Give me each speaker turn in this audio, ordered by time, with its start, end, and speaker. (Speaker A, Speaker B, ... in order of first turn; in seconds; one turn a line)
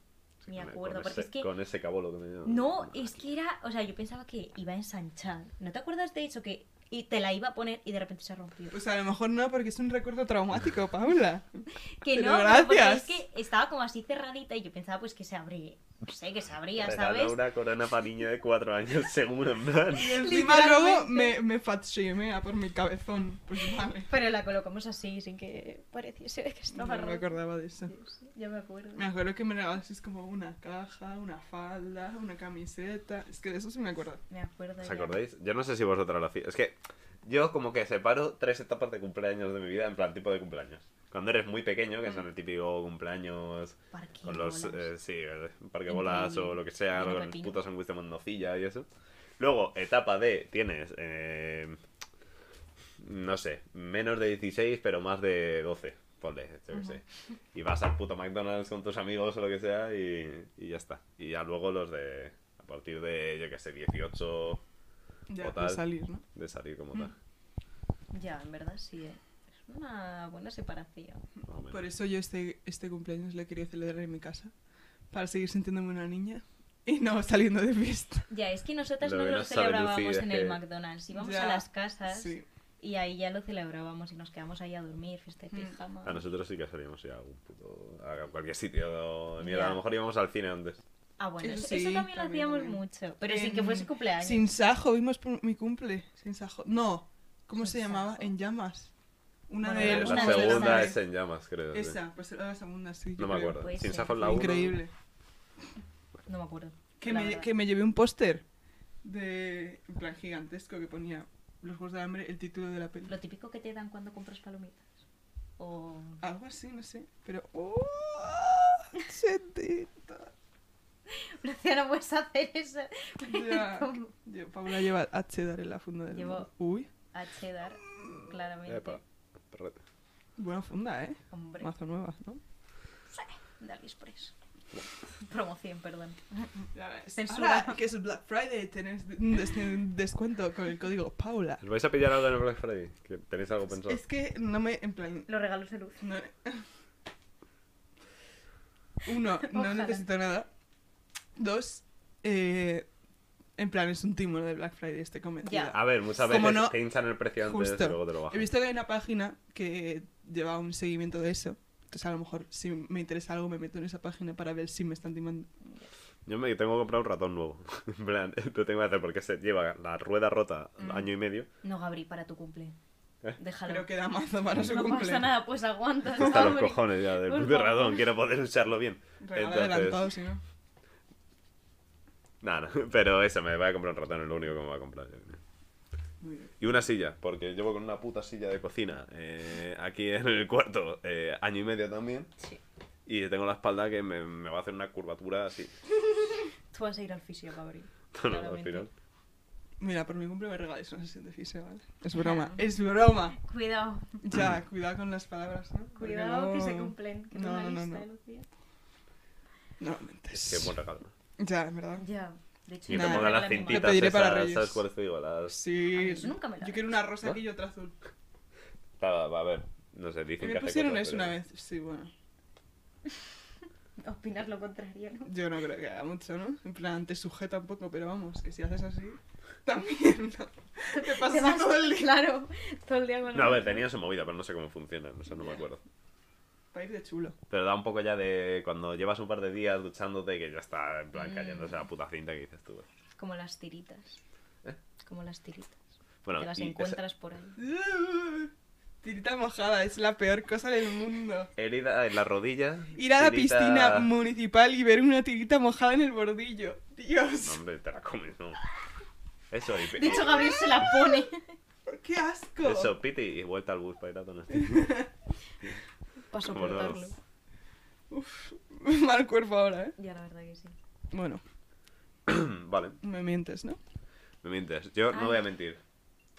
Speaker A: 0.4-3.2
Speaker B: 0.5-1.5
Speaker B: 2.4-8.8
Speaker C: 8.7-13.2
Speaker B: 11.8-17.4
Speaker A: 16.8-20.2
Speaker B: 19.9-21.4
Speaker C: 20.0-24.1
Speaker B: 24.1-29.1
Speaker C: 26.7-27.9
Speaker C: 28.9-34.2
Speaker B: 34.3-35.2
Speaker A: 34.8-48.9
Speaker B: 43.9-44.9
Speaker B: 45.9-47.6
Speaker A: 49.4-51.8
Speaker A: 53.0-57.0
Speaker A: 57.5-64.6
Speaker C: 65.3-66.2
Speaker A: 65.4-67.1
Speaker B: 68.1-71.2
Speaker A: 71.5-71.8
Speaker C: 71.7-74.5
Speaker C: 75.1-78.3
Speaker B: 78.3-86.2
Speaker A: 79.0-80.6
Speaker C: 81.1-82.5
Speaker C: 85.5-85.8
Speaker A: 86.0-90.8
Speaker B: 89.4-89.8
Speaker B: 91.2-94.5
Speaker C: 91.4-98.9
Speaker B: 97.6-98.3
Speaker C: 99.5-101.0
Speaker B: 99.6-101.0
Speaker A: 99.8-102.0
Speaker C: 101.7-104.9
Speaker A: 103.2-104.8
Speaker B: 103.5-104.4
Speaker B: 106.2-107.5
Speaker C: 107.0-108.4
Speaker C: 109.0-113.1
Speaker B: 113.1-114.9
Speaker B: 115.6-116.2
Speaker C: 116.2-120.3
Speaker B: 121.1-124.1
Speaker C: 123.3-126.9
Speaker B: 126.1-126.5
Speaker B: 127.1-129.0
Speaker A: 128.7-129.8
Speaker C: 130.4-132.4
Speaker B: 131.3-131.7
Speaker B: 133.1-134.3
Speaker B: 135.2-136.5
Speaker C: 136.7-141.6
Speaker B: 137.1-137.8
Speaker A: 141.6-144.0
Speaker C: 143.8-145.3
Speaker B: 145.3-146.1
Speaker C: 146.0-146.6
Speaker C: 149.0-150.5
Speaker B: 149.4-150.0
Speaker C: 151.3-152.9
Speaker C: 153.6-156.8
Speaker B: 155.4-155.7
Speaker A: 155.7-158.5
Speaker C: 157.4-165.5
Speaker A: 166.2-171.5
Speaker C: 170.8-171.1
Speaker B: 171.6-172.8
Speaker B: 173.4-173.9
Speaker C: 173.7-175.4
Speaker B: 174.5-178.0
Speaker A: 176.1-180.1
Speaker C: 179.2-180.4
Speaker A: 182.4-185.4
Speaker C: 186.2-186.5
Speaker A: 186.6-192.3
Speaker A: 193.1-195.8
Speaker B: 196.7-198.9
Speaker A: 198.1-198.9
Speaker C: 199.8-203.4
Speaker B: 202.1-202.7
Speaker B: 203.3-204.1
Speaker C: 204.2-208.0
Speaker B: 205.9-208.5
Speaker C: 209.8-210.7
Speaker A: 210.3-211.1
Speaker C: 211.4-212.0
Speaker B: 212.0-214.1
Speaker A: 212.9-215.6
Speaker C: 212.9-214.8
Speaker C: 215.5-218.0
Speaker B: 215.9-216.9
Speaker A: 219.0-221.3
Speaker C: 220.4-222.1
Speaker B: 224.0-225.3
Speaker C: 225.2-232.2
Speaker B: 230.9-233.8
Speaker A: 233.3-235.8
Speaker C: 236.7-237.4
Speaker A: 237.5-242.8
Speaker B: 241.2-241.7
Speaker B: 243.2-244.2
Speaker B: 245.0-245.8
Speaker A: 246.2-247.0
Speaker B: 246.3-247.6
Speaker C: 247.6-251.5
Speaker A: 251.6-254.1
Speaker C: 252.9-257.6
Speaker A: 257.4-258.6
Speaker A: 259.5-260.7
Speaker B: 259.9-261.5
Speaker C: 261.9-262.9
Speaker A: 262.6-265.1
Speaker C: 264.5-265.1
Speaker B: 266.3-267.1
Speaker A: 266.4-267.1
Speaker C: 268.1-269.9
Speaker B: 270.0-270.7
Speaker C: 271.1-271.4
Speaker A: 272.2-273.0
Speaker C: 273.0-273.8
Speaker A: 274.4-275.8
Speaker B: 275.1-275.4